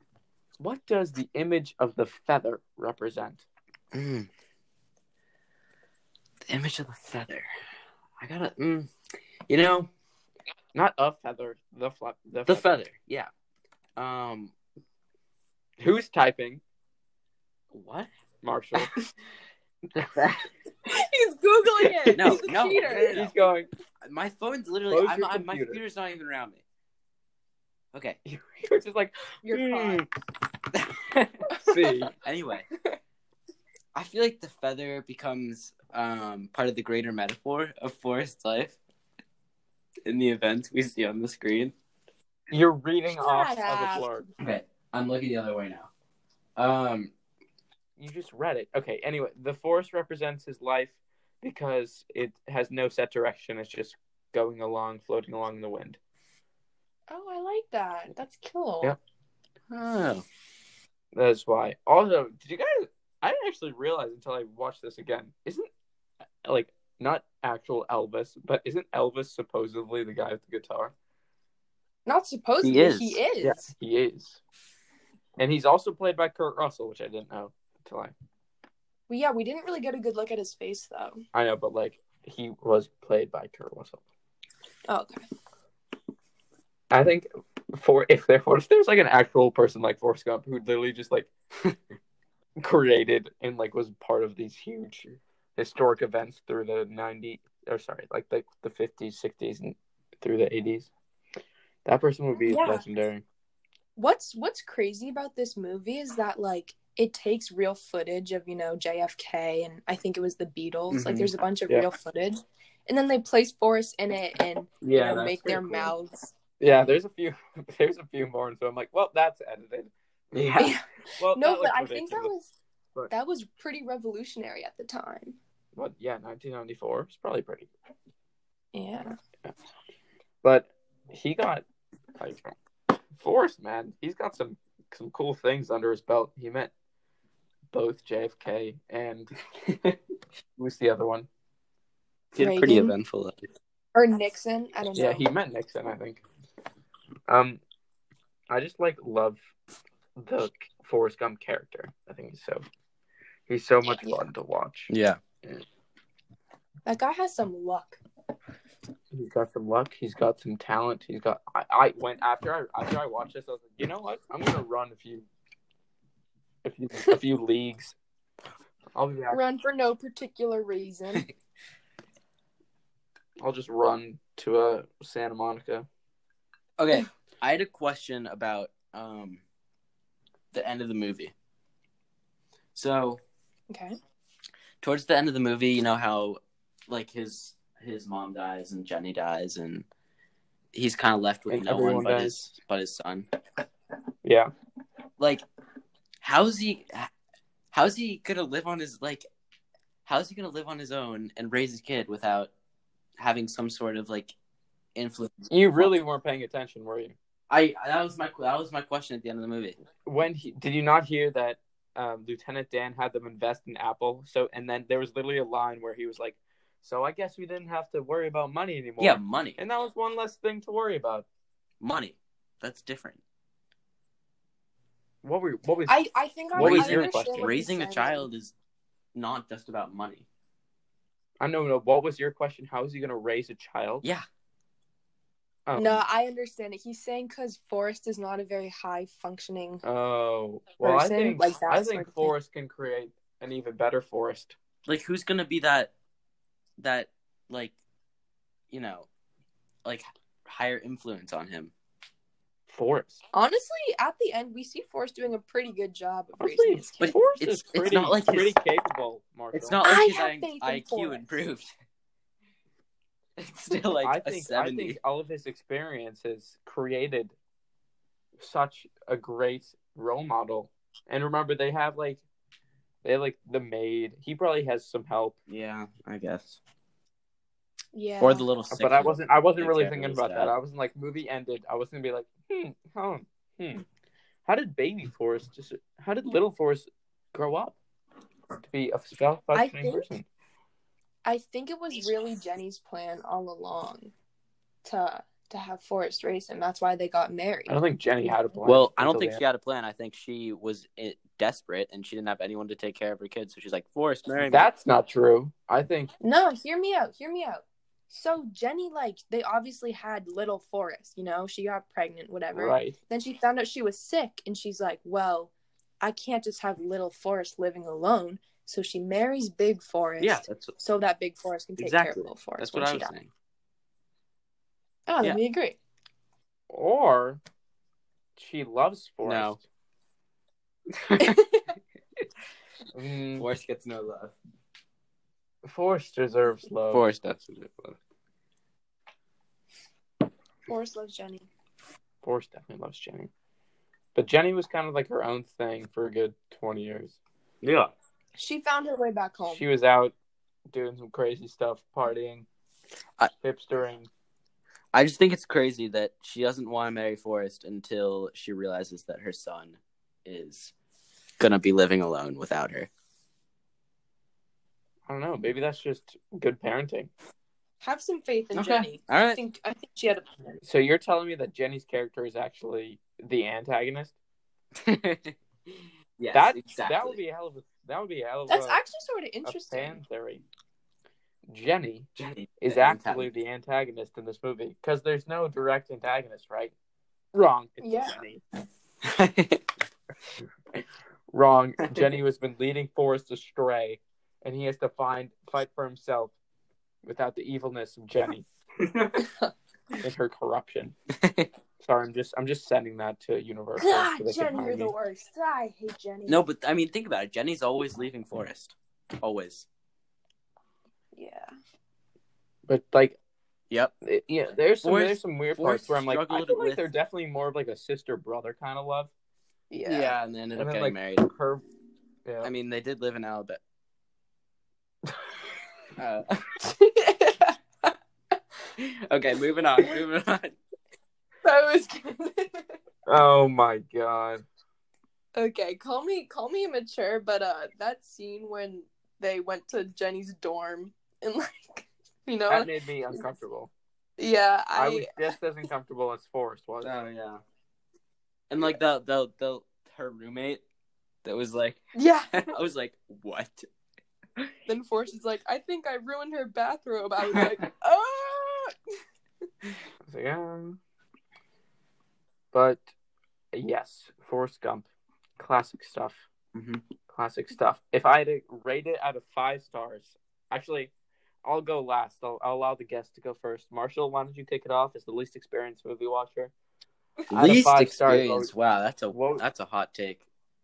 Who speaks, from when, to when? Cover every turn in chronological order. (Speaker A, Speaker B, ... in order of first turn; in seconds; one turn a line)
Speaker A: 0.6-3.5
Speaker B: 3.9-4.3
Speaker B: 6.5-7.5
Speaker B: 8.2-8.9
Speaker B: 9.5-9.9
Speaker A: 10.7-12.8
Speaker B: 12.4-13.3
Speaker B: 14.0-14.5
Speaker A: 15.8-16.6
Speaker B: 17.7-18.1
Speaker A: 18.4-18.9
Speaker A: 19.9-20.4
Speaker C: 20.9-23.2
Speaker A: 22.1-22.5
Speaker B: 22.1-23.3
Speaker A: 23.1-23.7
Speaker B: 24.0-26.6
Speaker A: 24.9-25.8
Speaker B: 27.9-28.2
Speaker A: 28.2-30.1
Speaker C: 29.4-30.1
Speaker B: 30.7-31.4
Speaker A: 31.6-32.1
Speaker B: 32.0-32.7
Speaker B: 33.9-38.8
Speaker B: 40.0-41.7
Speaker A: 42.5-44.2
Speaker C: 43.1-44.3
Speaker B: 44.4-45.9
Speaker B: 46.6-47.1
Speaker A: 48.0-56.0
Speaker C: 57.1-58.9
Speaker B: 59.7-60.2
Speaker A: 61.1-65.7
Speaker A: 66.4-70.9
Speaker C: 72.0-73.7
Speaker B: 72.6-73.2
Speaker A: 73.4-74.4
Speaker A: 75.4-78.1
Speaker C: 79.1-81.2
Speaker A: 81.3-84.0
Speaker C: 84.9-85.2
Speaker A: 86.9-91.3
Speaker A: 92.6-100.9
Speaker A: 101.8-103.2
Speaker C: 102.4-102.8
Speaker C: 104.0-116.3
Speaker B: 110.9-111.3
Speaker B: 114.8-115.9
Speaker A: 116.6-119.9
Speaker B: 120.3-120.7
Speaker C: 120.6-122.5
Speaker A: 121.2-122.3
Speaker C: 123.1-125.4
Speaker A: 125.7-127.7
Speaker C: 128.7-129.2
Speaker A: 130.4-131.6
Speaker A: 132.2-132.6
Speaker A: 133.2-136.7
Speaker A: 137.7-139.3
Speaker B: 139.7-139.9
Speaker A: 140.6-141.3
Speaker B: 142.3-143.4
Speaker C: 142.4-142.9
Speaker C: 143.9-145.2
Speaker A: 144.9-146.2
Speaker A: 147.3-147.6
Speaker A: 148.5-149.4
Speaker A: 150.2-152.6
Speaker A: 153.5-154.9
Speaker C: 153.8-154.3
Speaker B: 154.9-155.2
Speaker C: 156.8-158.0
Speaker A: 159.1-165.3
Speaker A: 166.6-167.9
Speaker A: 168.9-169.4
Speaker C: 169.3-171.3
Speaker A: 173.4-175.9
Speaker B: 176.8-179.4
Speaker B: 180.5-181.3
Speaker B: 182.7-183.2
Speaker C: 183.7-184.0
Speaker B: 184.8-189.8
Speaker B: 190.7-193.3
Speaker A: 191.5-192.4
Speaker A: 194.2-194.5
Speaker B: 196.2-197.1
Speaker B: 197.7-199.2
Speaker B: 200.1-202.5
Speaker B: 203.2-204.3
Speaker B: 204.9-205.9
Speaker A: 205.5-207.2
Speaker B: 207.5-209.8
Speaker A: 210.0-221.2
Speaker B: 219.0-219.6
Speaker B: 221.8-223.2
Speaker A: 225.2-226.0
Speaker C: 225.9-228.3
Speaker A: 226.5-227.5
Speaker B: 226.6-228.5
Speaker B: 229.1-230.2
Speaker A: 231.4-234.0
Speaker A: 235.7-236.0
Speaker C: 235.7-239.8
Speaker A: 239.8-244.5
Speaker C: 240.8-242.3
Speaker B: 244.8-245.9
Speaker B: 246.8-247.7
Speaker B: 248.7-249.1
Speaker B: 249.8-251.7
Speaker A: 252.7-253.2
Speaker C: 253.3-257.2
Speaker A: 256.4-259.8
Speaker B: 257.0-258.6
Speaker B: 259.5-261.7
Speaker C: 259.8-261.3
Speaker B: 263.4-265.0
Speaker A: 264.0-267.3
Speaker A: 268.4-272.2
Speaker A: 273.0-275.4
Speaker B: 275.5-276.6
Speaker C: 277.9-278.5
Speaker B: 278.2-280.5
Speaker A: 278.7-283.8
Speaker A: 284.4-287.8
Speaker A: 288.6-290.2
Speaker C: 289.5-290.1
Speaker C: 291.2-294.1
Speaker C: 294.8-297.7
Speaker A: 297.7-299.4
Speaker B: 298.6-304.7
Speaker A: 304.5-306.1
Speaker C: 306.2-323.1
Speaker A: 312.5-312.9
Speaker B: 320.2-320.8
Speaker B: 321.8-323.3
Speaker C: 325.1-325.8
Speaker A: 326.7-327.4
Speaker A: 328.4-329.6
Speaker B: 329.2-329.6
Speaker B: 330.9-331.4
Speaker C: 331.2-331.6
Speaker A: 332.9-333.5
Speaker B: 333.4-334.3
Speaker A: 335.6-337.1
Speaker B: 336.9-338.0
Speaker C: 340.7-341.5
Speaker A: 342.2-343.3
Speaker A: 344.1-347.1
Speaker B: 347.6-347.9
Speaker C: 348.4-349.6
Speaker A: 349.5-350.1
Speaker A: 350.7-352.5
Speaker A: 353.4-354.1
Speaker B: 354.9-360.7
Speaker B: 361.4-362.9
Speaker A: 365.1-367.1
Speaker C: 367.8-370.6
Speaker B: 368.5-369.4
Speaker A: 370.6-374.1
Speaker B: 374.7-377.2
Speaker A: 376.3-378.8
Speaker C: 378.5-380.0
Speaker A: 379.4-380.4
Speaker A: 381.5-382.1
Speaker B: 382.2-383.3
Speaker A: 382.6-386.7
Speaker A: 387.3-388.4
Speaker C: 387.8-388.2
Speaker B: 389.0-389.6
Speaker A: 391.3-396.3
Speaker A: 397.0-398.4
Speaker B: 398.8-399.2
Speaker A: 400.0-400.9
Speaker B: 401.1-401.5
Speaker A: 401.8-404.9
Speaker C: 403.8-406.4
Speaker B: 406.3-409.6
Speaker C: 411.1-411.5
Speaker A: 412.7-413.2
Speaker A: 414.0-419.1
Speaker B: 414.8-416.8
Speaker C: 419.7-420.1
Speaker B: 419.8-421.2
Speaker A: 420.6-421.6
Speaker A: 422.2-422.5
Speaker B: 422.4-423.6
Speaker B: 426.0-426.5
Speaker C: 426.6-427.9
Speaker B: 428.8-430.6
Speaker C: 431.4-432.7
Speaker A: 433.1-434.4
Speaker C: 435.3-443.2
Speaker A: 442.5-443.7
Speaker C: 444.2-445.1
Speaker A: 444.7-446.9
Speaker B: 446.8-447.4
Speaker B: 448.5-450.6
Speaker B: 451.2-451.8
Speaker C: 451.9-452.5
Speaker B: 452.3-453.7
Speaker C: 454.7-458.7
Speaker A: 460.0-460.8
Speaker A: 462.5-462.9
Speaker A: 463.5-466.2
Speaker B: 466.5-466.8
Speaker A: 467.1-470.9
Speaker A: 471.4-476.5
Speaker A: 477.3-478.5
Speaker B: 477.3-480.2
Speaker A: 479.1-479.4